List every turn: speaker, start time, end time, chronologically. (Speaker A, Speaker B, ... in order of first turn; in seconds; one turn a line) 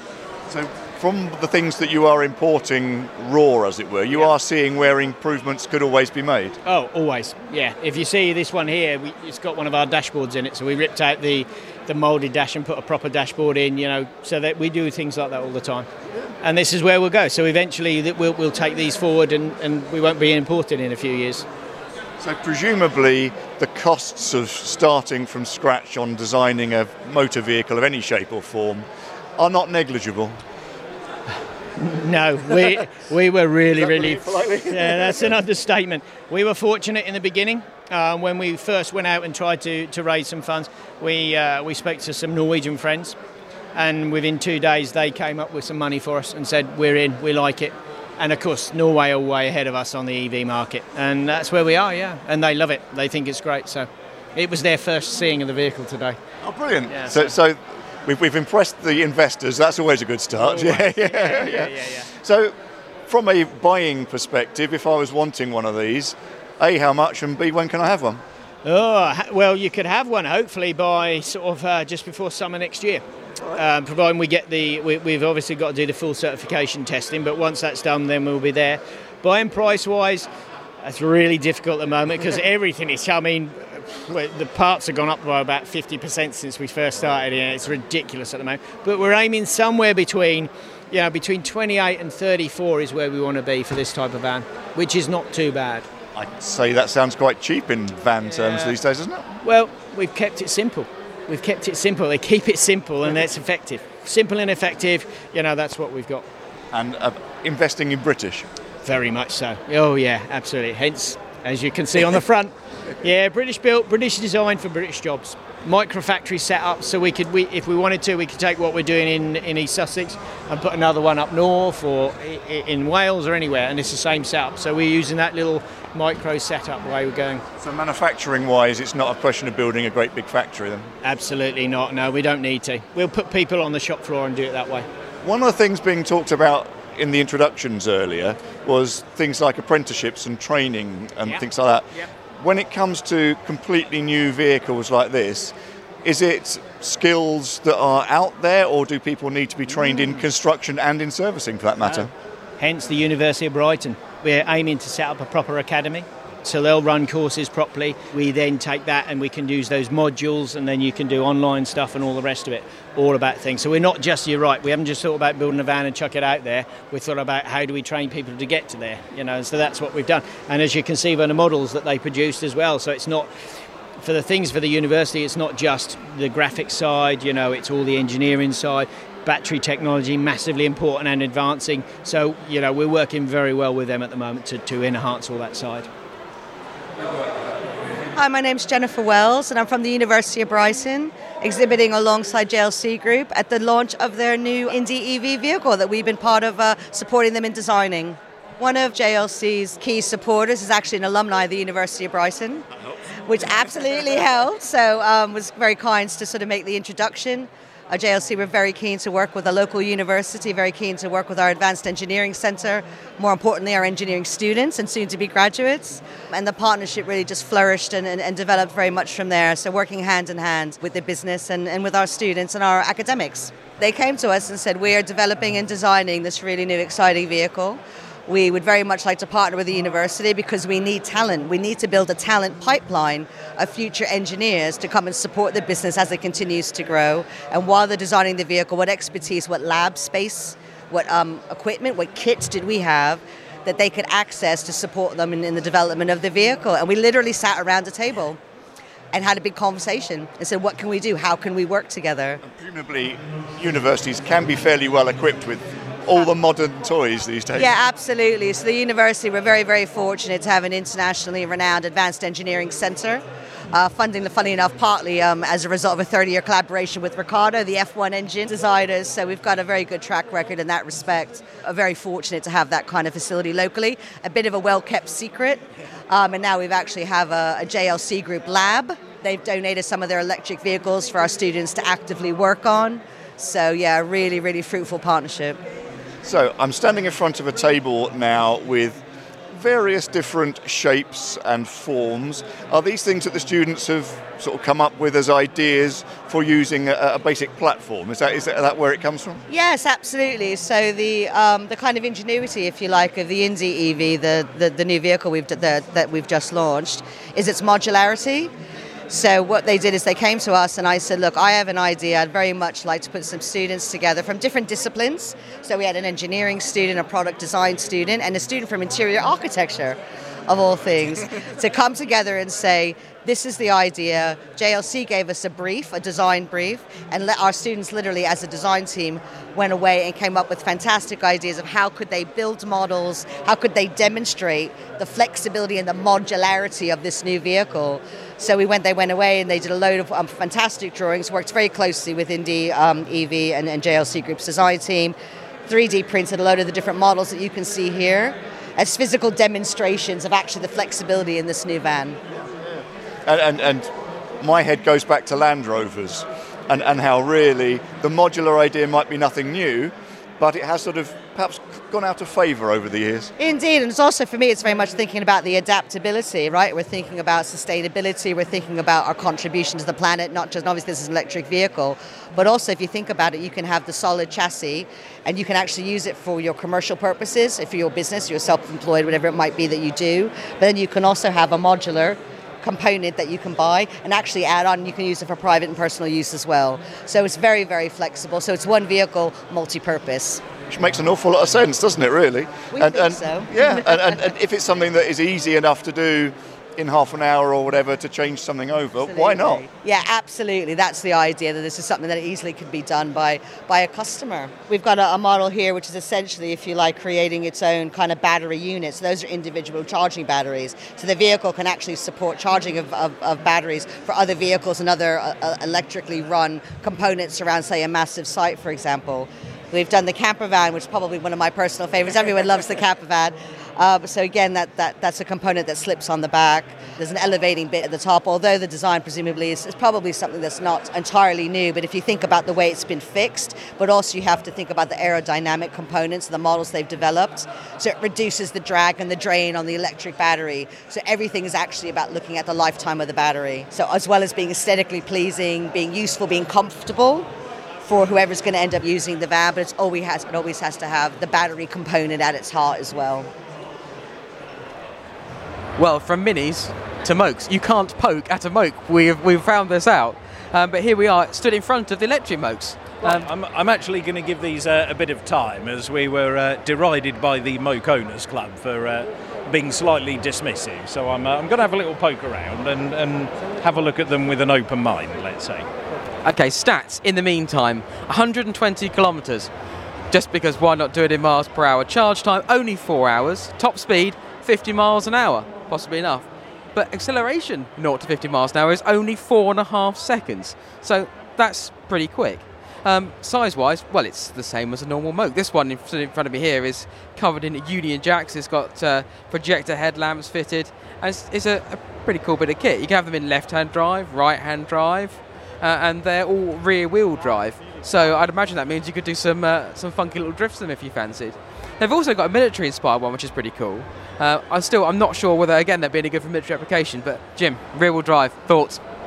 Speaker A: 0.5-6.6
Speaker B: 6.7-15.9
Speaker B: 16.4-21.5
Speaker A: 22.2-28.9
Speaker A: 29.4-30.4
Speaker B: 31.8-43.2
Speaker A: 33.8-35.2
Speaker B: 43.8-56.2
Speaker A: 56.4-62.5
Speaker B: 56.9-57.4
Speaker B: 60.4-62.1
Speaker A: 63.1-68.2
Speaker B: 68.7-80.3
Speaker B: 80.8-95.9
Speaker A: 96.1-99.3
Speaker B: 98.4-98.8
Speaker B: 99.4-106.3
Speaker A: 106.7-108.5
Speaker B: 108.8-127.4
Speaker A: 127.6-130.9
Speaker B: 131.0-134.9
Speaker A: 135.2-141.9
Speaker A: 142.4-152.1
Speaker B: 152.6-173.3
Speaker B: 174.0-185.9
Speaker C: 188.2-202.7
Speaker C: 203.3-248.4
Speaker C: 249.1-252.4
Speaker A: 252.4-257.7
Speaker C: 257.6-285.6
Speaker A: 286.2-299.4
Speaker C: 299.5-308.5
Speaker C: 309.1-345.1
Speaker C: 345.7-352.2
Speaker A: 352.5-353.9
Speaker A: 354.4-363.3
Speaker C: 363.4-390.4
Speaker A: 390.7-399.6
Speaker C: 392.7-394.4
Speaker C: 399.1-447.3
Speaker C: 447.9-453.3
Speaker D: 455.8-463.3
Speaker E: 463.0-475.7
Speaker D: 476.2-479.5
Speaker D: 480.1-518.8